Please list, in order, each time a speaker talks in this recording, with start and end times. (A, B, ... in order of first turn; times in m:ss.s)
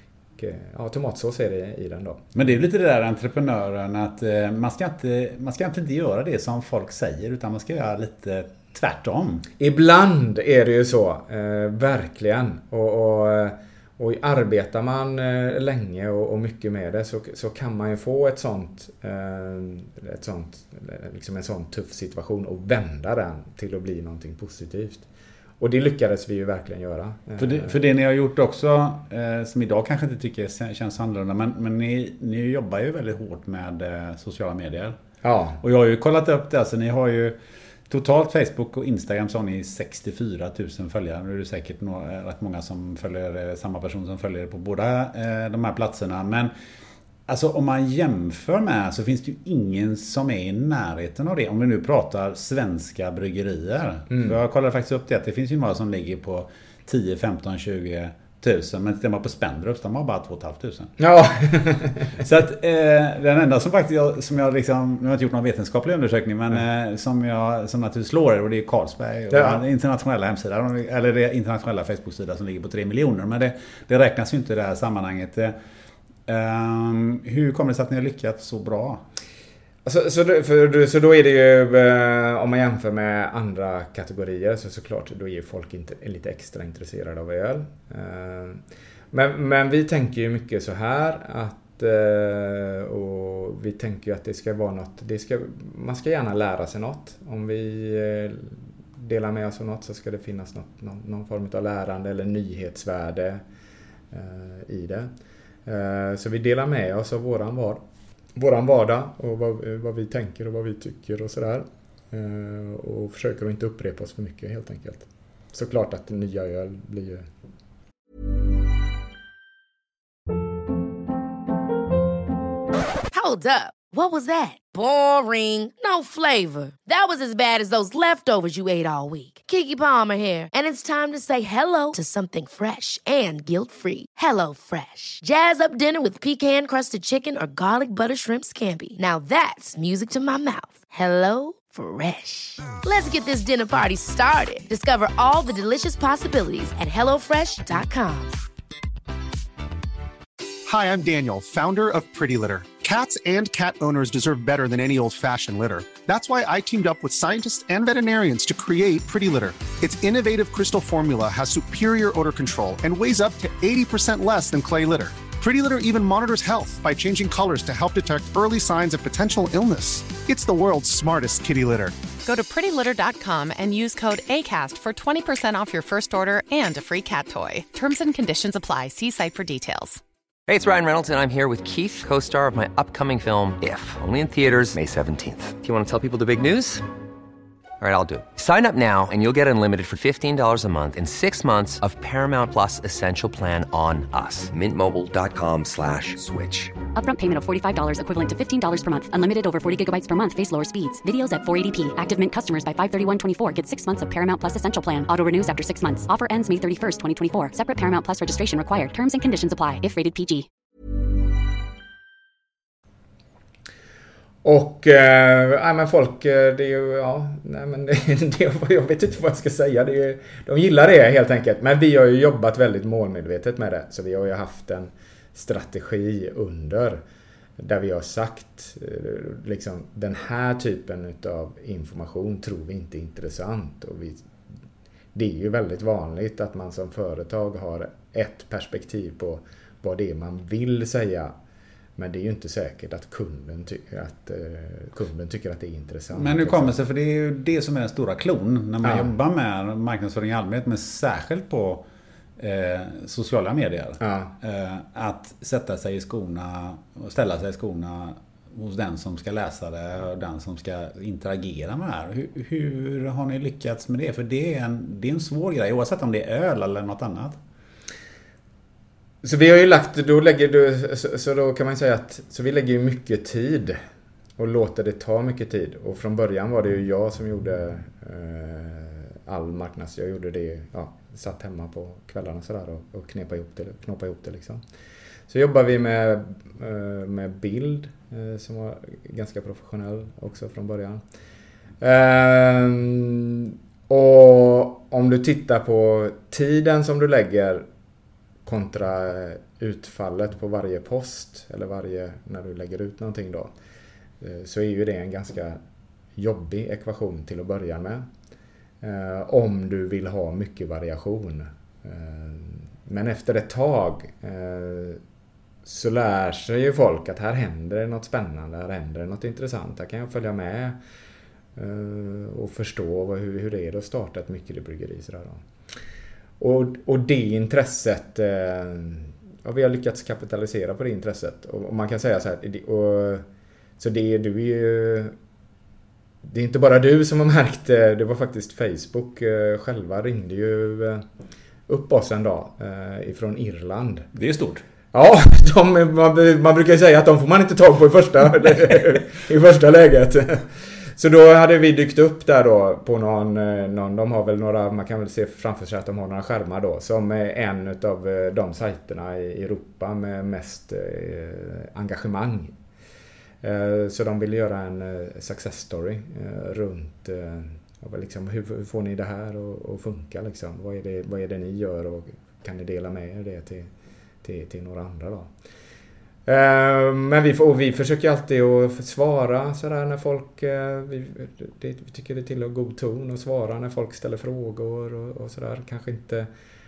0:00.4-0:02.3 A
0:02.3-0:09.5 B
0:09.6-0:25.0 A
0:25.6-0:27.8 A
0:27.4-0:35.0 B
0:35.2-0:35.6 A
0:35.6-0:37.4 B
0:37.9-0:46.5 B
0:47.3-1:00.9 B
1:01.0-1:02.2 A
1:02.2-1:15.5 B
1:09.3-1:09.6 A
1:16.3-1:19.0 B
1:19.8-1:28.6 A
1:29.1-1:43.4 A
1:44.1-1:45.1 A
1:45.6-1:47.8 A
1:48.4-1:57.2 A
2:03.1-2:28.4 C
2:30.6-2:52.0 D
2:52.2-3:00.0 E
3:00.5-3:06.8 F
3:07.8-3:16.8 F
3:16.9-3:30.5 G
3:34.4-3:47.0 A
3:47.6-3:54.3 A
3:55.1-4:01.3 A
4:02.0-4:06.8 A
4:06.1-4:11.8 B
4:08.8-4:09.1 A
4:12.4-4:27.4 B
4:14.0-4:14.3 A
4:29.2-4:33.8 A
4:34.4-4:44.6 A
4:45.3-4:51.0 A
4:51.8-4:57.6 A
4:58.4-5:03.5 A
5:04.2-5:05.6 A
5:06.2-5:08.0 A
5:08.8-5:15.0 A
5:15.6-5:20.8 A
5:21.6-5:25.4 A
5:26.4-5:33.2 A
5:33.8-5:35.1 A
5:36.2-5:41.0 A
5:41.7-5:44.1 A
5:44.1-5:44.6 B
5:44.9-6:02.5 A
6:03.4-6:13.7 A
6:14.2-6:15.3 A
6:16.3-6:26.3 A